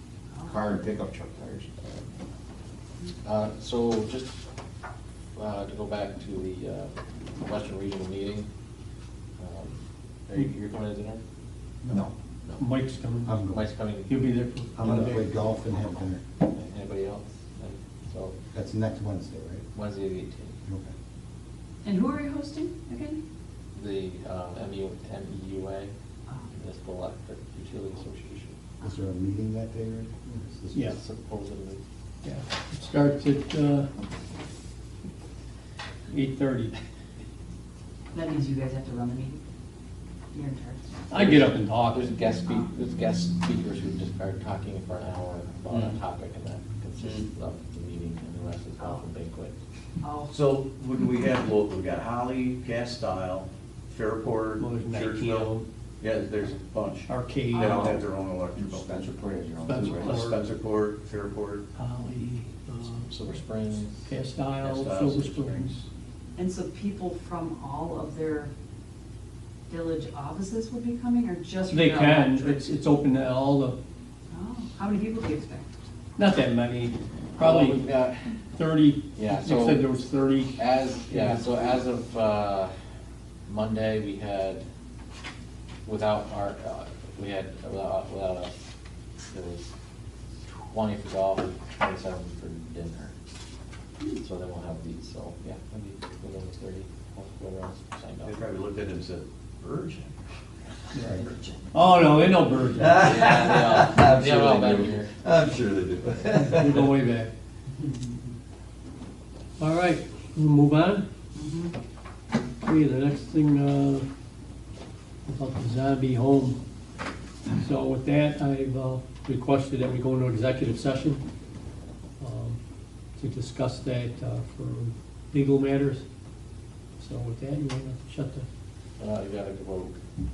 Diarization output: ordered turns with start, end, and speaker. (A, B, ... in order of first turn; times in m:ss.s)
0:00.5-0:02.0 A
0:03.2-0:04.4 B
0:05.4-0:08.5 B
0:09.4-0:11.2 B
0:11.8-0:12.1 C
0:12.6-0:13.4 D
0:13.2-0:13.6 C
0:13.5-0:14.3 B
0:14.1-0:15.3 D
0:14.8-0:16.2 C
0:14.8-0:18.4 B
0:18.5-0:19.7 C
0:19.7-0:20.6 B
0:20.7-0:20.9 C
0:21.8-0:23.2 E
0:23.7-0:25.9 B
0:26.5-0:28.6 B
0:28.8-0:31.0 C
0:30.8-0:31.8 B
0:32.2-0:33.9 D
0:36.1-0:36.7 D
0:38.1-0:39.4 E
0:40.3-0:41.1 E
0:41.1-0:42.1 D
0:41.1-0:49.6 B
0:42.4-0:42.7 E
0:45.7-0:46.0 F
0:47.0-0:47.3 F
0:50.0-0:50.4 E
0:50.3-0:59.1 F
0:54.6-0:55.7 D
0:57.1-0:57.9 D
0:57.5-0:57.9 E
0:58.6-1:00.2 A
0:59.6-1:00.4 D
0:59.7-1:01.7 F
1:01.8-1:03.1 D
1:03.1-1:03.4 F
1:03.2-1:04.1 B
1:04.1-1:05.7 D
1:04.6-1:05.9 F
1:06.4-1:08.5 E
1:09.7-1:12.7 E
1:11.7-1:13.8 D
1:14.3-1:15.7 E
1:16.2-1:17.8 D
1:17.4-1:18.4 B
1:18.5-1:21.4 D
1:19.2-1:20.0 B
1:20.6-1:22.7 B
1:23.5-1:24.6 B
1:25.9-1:28.5 B
1:29.3-1:29.7 B
1:30.7-1:33.1 B
1:34.2-1:38.4 B
1:38.2-1:40.2 F
1:41.1-1:41.7 E
1:41.7-1:43.2 D
1:42.8-1:46.9 F
1:42.9-1:45.1 B
1:46.3-1:47.3 D
1:47.8-1:48.2 E
1:49.6-1:51.0 D
1:51.3-1:51.8 E
1:52.6-1:54.1 D
1:55.3-1:56.6 D
1:57.5-2:01.2 D
2:02.2-2:02.6 D
2:03.2-2:06.0 D
2:07.0-2:08.5 D
2:09.0-2:10.0 B